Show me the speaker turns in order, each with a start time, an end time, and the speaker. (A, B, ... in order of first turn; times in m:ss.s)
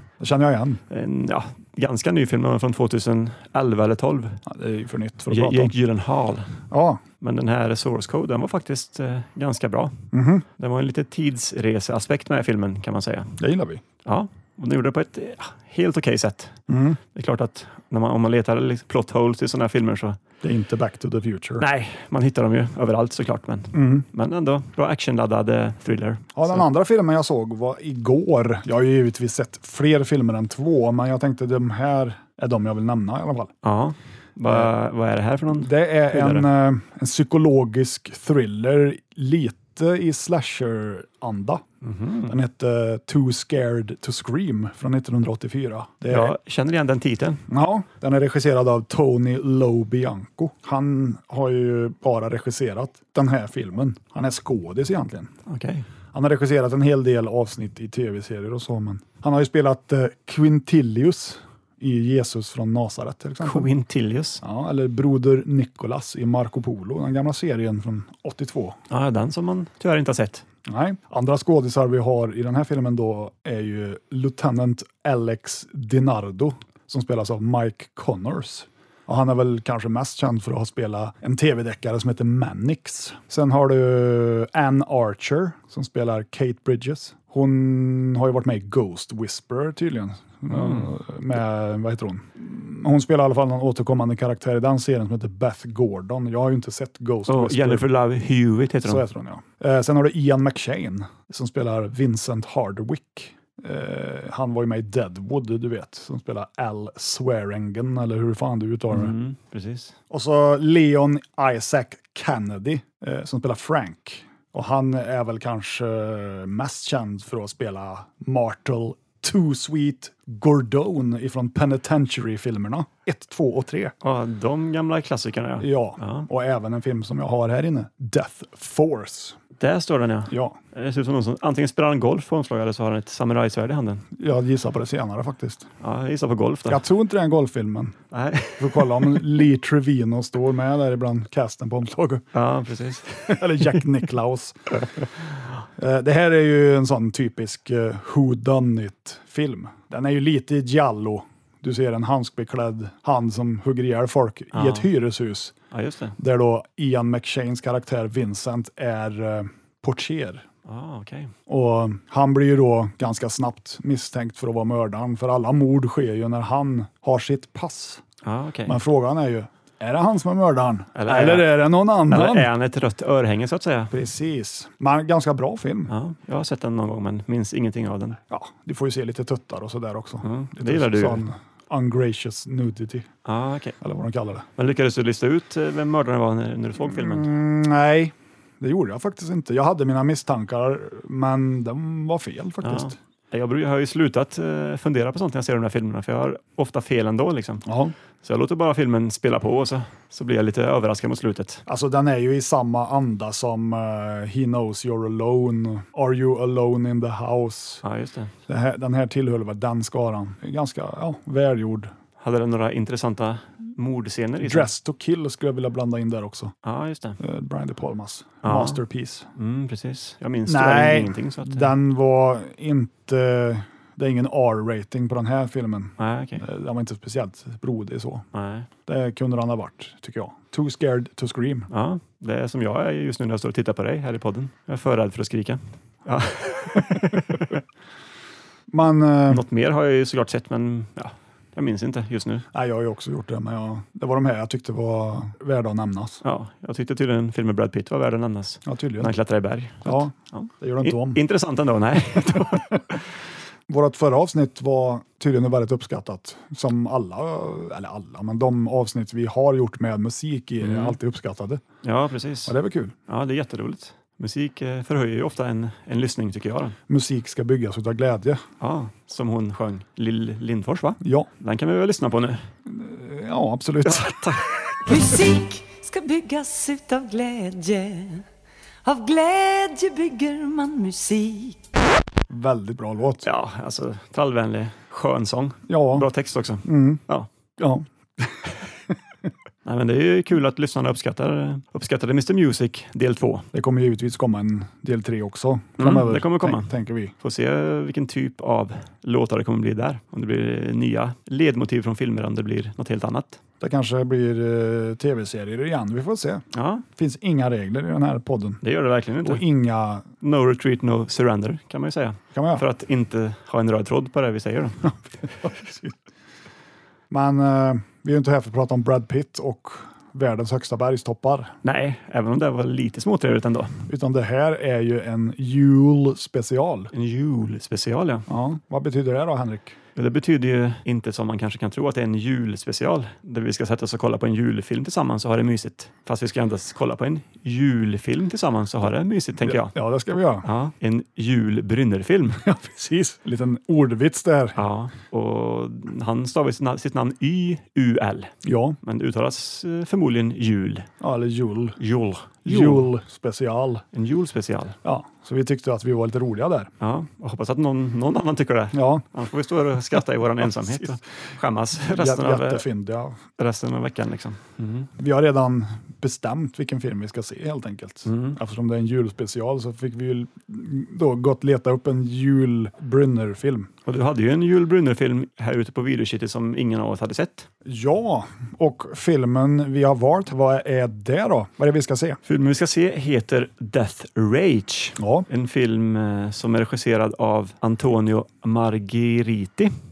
0:00.2-0:00.8 A
0:00.9-0:04.4 B
0:04.5-0:05.7 A
0:05.3-0:06.5 B
0:06.7-0:07.0 A
0:07.2-0:10.0 B
0:10.1-0:10.4 A
0:10.6-0:13.4 B
0:13.4-0:13.8 A
0:14.0-0:16.6 B
0:16.7-0:17.0 A
0:17.1-0:20.2 B
0:20.4-0:21.7 A
0:21.6-0:26.6 B
0:23.7-0:24.1 A
0:26.4-0:33.5 A
0:33.6-0:36.5 B
0:35.5-0:41.6 A
0:41.8-0:42.4 B
0:42.3-0:46.4 A
0:46.1-0:47.4 B
0:47.5-0:55.3 A
0:55.5-0:55.9 B
0:56.1-1:03.7 A
1:03.4-1:04.4 B
1:04.4-1:08.8 A
1:08.9-1:10.4 B
1:10.7-1:37.9 A
1:30.5-1:30.9 B
1:37.3-1:39.0 B
1:38.8-1:49.1 A
1:48.9-1:50.0 B
1:50.1-2:03.9 A
2:04.0-2:06.3 B
2:05.6-2:09.4 A
2:09.6-2:14.0 B
2:10.3-2:10.6 A
2:14.2-2:15.7 A
2:15.8-2:16.8 B
2:16.7-2:18.0 A
2:18.1-2:19.2 B
2:18.6-2:22.3 A
2:22.3-2:23.8 B
2:23.3-2:25.0 A
2:25.8-2:35.6 A
2:34.5-2:34.9 B
2:35.7-2:36.2 B
2:36.2-2:40.4 A
2:40.7-2:41.3 B
2:41.5-2:48.0 A
2:48.2-2:48.8 B
2:48.7-2:52.5 A
2:51.0-2:53.9 B
2:53.9-2:55.9 A
2:55.9-2:58.2 B
2:58.3-3:03.1 A
3:00.2-3:01.2 B
3:03.2-3:03.8 B
3:03.8-3:04.5 A
3:04.6-3:07.3 B
3:06.8-3:13.0 A
3:12.6-3:17.6 B
3:17.6-3:18.0 A
3:18.2-3:21.6 B
3:21.7-3:27.8 A
3:27.8-3:28.3 B
3:28.5-3:31.9 A
3:32.2-3:34.7 B
3:34.4-3:36.5 A
3:36.6-3:37.2 B
3:37.2-3:39.3 A
3:38.4-3:38.8 B
3:39.4-3:41.7 B
3:40.5-3:48.3 A
3:46.0-3:46.4 B
3:48.3-3:48.7 B
3:48.9-3:51.7 A
3:51.7-3:57.6 B
3:58.7-3:59.4 A
3:59.3-4:02.4 B
4:02.5-4:06.2 A
4:06.2-4:13.0 B
4:08.6-4:09.1 A
4:09.8-4:11.2 A
4:12.2-4:12.8 A
4:13.7-4:21.6 A
4:20.6-4:21.0 B
4:21.8-4:22.6 B
4:22.5-4:23.0 A
4:23.1-4:26.8 B
4:26.9-4:28.4 A
4:28.6-4:32.5 B
4:31.0-4:31.3 A
4:32.7-4:34.4 A
4:33.8-4:34.8 B
4:34.9-4:38.2 C
4:38.8-4:41.6 C
4:42.3-4:43.3 A
4:43.2-4:47.3 B
4:45.7-4:46.1 A
4:46.6-4:47.0 A
4:47.6-4:48.4 A
4:49.6-4:53.5 B
4:53.5-4:57.1 A
4:55.8-5:03.4 B
5:03.6-5:06.4 A
5:06.5-5:06.8 B
5:07.0-5:08.6 A
5:08.6-5:09.4 B
5:09.2-5:10.1 A
5:10.2-5:14.9 B
5:12.3-5:12.6 A
5:15.4-5:16.0 A
5:17.1-5:21.6 A
5:21.6-5:23.8 B
5:23.9-5:26.9 A
5:26.9-5:28.3 B
5:28.3-5:29.8 A
5:30.0-5:39.7 B
5:39.4-5:40.5 A
5:40.4-5:42.4 B
5:42.4-5:44.6 A
5:44.6-5:50.9 B
5:48.4-5:48.8 A
5:51.0-5:51.8 A
5:51.8-5:52.9 B
5:52.4-5:53.8 A
5:53.9-5:54.8 B
5:54.8-5:56.7 A
5:56.8-6:02.6 B
5:58.7-5:59.1 A
6:00.6-6:00.9 A
6:01.8-6:03.2 A
6:03.4-6:04.9 B
6:05.0-6:13.7 A
6:08.1-6:08.4 B
6:13.9-6:17.5 B
6:17.6-6:22.2 A
6:22.3-6:29.7 B
6:25.0-6:25.3 A